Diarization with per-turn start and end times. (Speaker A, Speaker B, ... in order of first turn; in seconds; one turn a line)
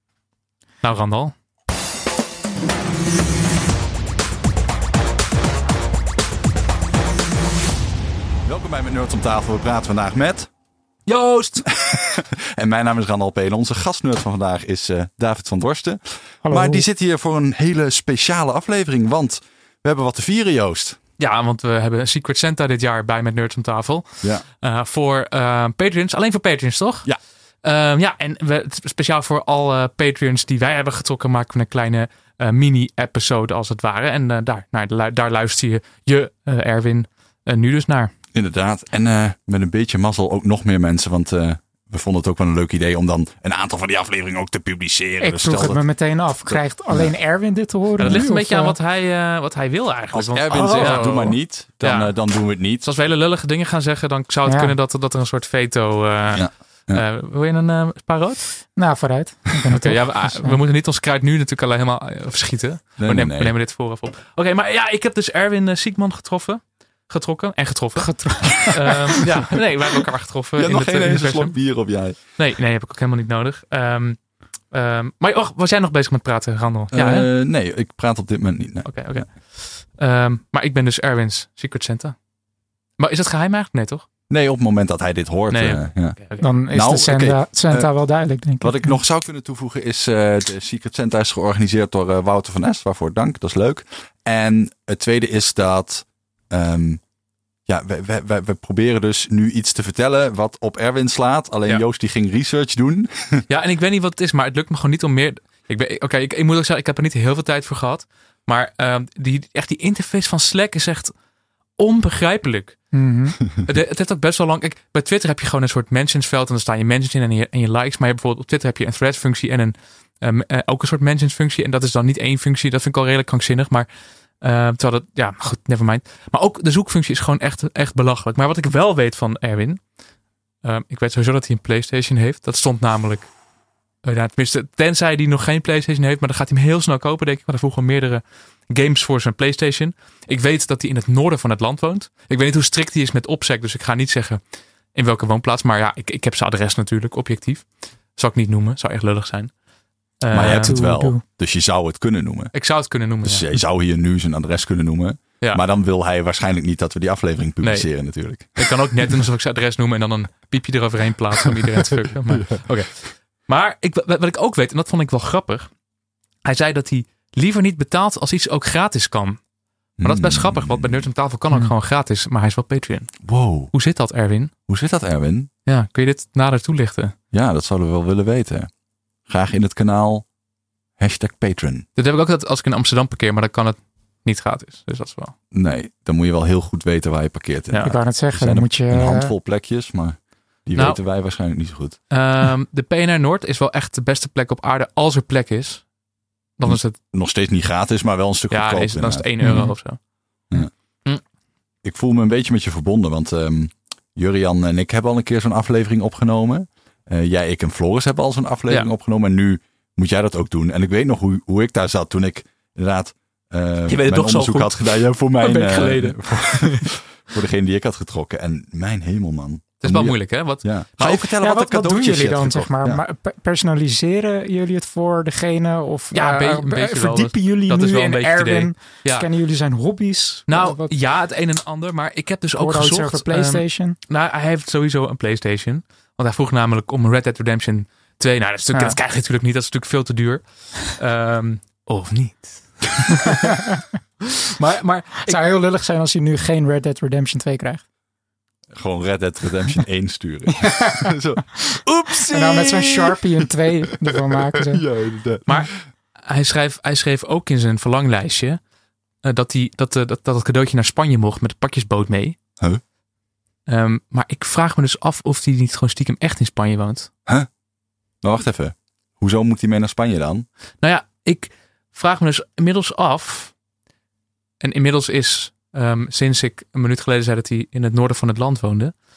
Speaker A: 0.8-1.3
Speaker B: 8.4-10.5
Speaker A: 11.1-11.7
Speaker B: 11.7-21.0
Speaker C: 16.4-16.8
Speaker A: 21.2-27.1
Speaker A: 27.6-38.1
Speaker B: 38.3-45.8
Speaker C: 45.2-48.8
Speaker B: 46.5-47.1
Speaker A: 48.0-52.1
Speaker B: 50.1-52.9
Speaker C: 50.5-51.2
Speaker A: 52.8-58.5
Speaker C: 54.5-54.8
Speaker B: 56.3-57.0
Speaker C: 58.8-60.6
Speaker A: 59.7-71.6
Speaker B: 63.0-63.5
Speaker C: 68.0-69.2
Speaker B: 70.6-72.2
Speaker A: 72.3-74.2
Speaker A: 74.7-77.3
Speaker B: 76.9-79.2
Speaker A: 78.8-82.2
Speaker A: 83.0-84.0
Speaker B: 84.3-86.2
Speaker A: 85.5-86.5
Speaker C: 86.4-89.0
Speaker B: 86.7-87.9
Speaker B: 88.6-97.0
Speaker B: 97.7-103.4
Speaker A: 103.5-111.1
Speaker A: 111.8-112.8
Speaker C: 112.9-113.4
Speaker A: 113.5-123.9
Speaker A: 124.4-129.8
Speaker A: 130.6-133.3
Speaker A: 134.0-144.4
Speaker A: 144.9-149.5
Speaker A: 150.2-150.8
Speaker B: 150.3-152.5
Speaker C: 150.6-151.2
Speaker A: 152.5-153.5
Speaker B: 153.2-159.2
Speaker A: 157.6-157.9
Speaker A: 158.6-165.7
Speaker A: 166.4-169.4
Speaker B: 170.0-171.1
Speaker A: 170.0-173.2
Speaker B: 173.2-173.7
Speaker A: 173.7-174.5
Speaker B: 174.7-175.5
Speaker A: 175.7-177.1
Speaker B: 177.3-178.7
Speaker B: 179.3-180.2
Speaker B: 181.0-181.8
Speaker A: 181.9-185.3
Speaker B: 185.5-192.0
Speaker A: 187.7-187.9
Speaker C: 187.8-189.3
Speaker A: 190.7-191.0
Speaker A: 192.1-195.8
Speaker A: 196.6-197.0
Speaker B: 196.6-199.3
Speaker A: 198.5-200.0
Speaker C: 199.4-199.7
Speaker B: 201.8-223.0
Speaker A: 213.8-216.9
Speaker A: 219.8-221.3
Speaker C: 221.3-230.9
Speaker A: 226.1-229.3
Speaker A: 230.5-243.5
Speaker C: 232.6-234.0
Speaker A: 244.4-245.4
Speaker C: 245.2-247.8
Speaker B: 248.8-255.6
Speaker C: 250.6-251.1
Speaker C: 252.3-254.8
Speaker A: 255.4-255.7
Speaker A: 256.2-258.6
Speaker A: 259.2-262.4
Speaker A: 263.7-267.1
Speaker B: 268.2-270.4
Speaker A: 270.8-273.5
Speaker A: 274.6-278.9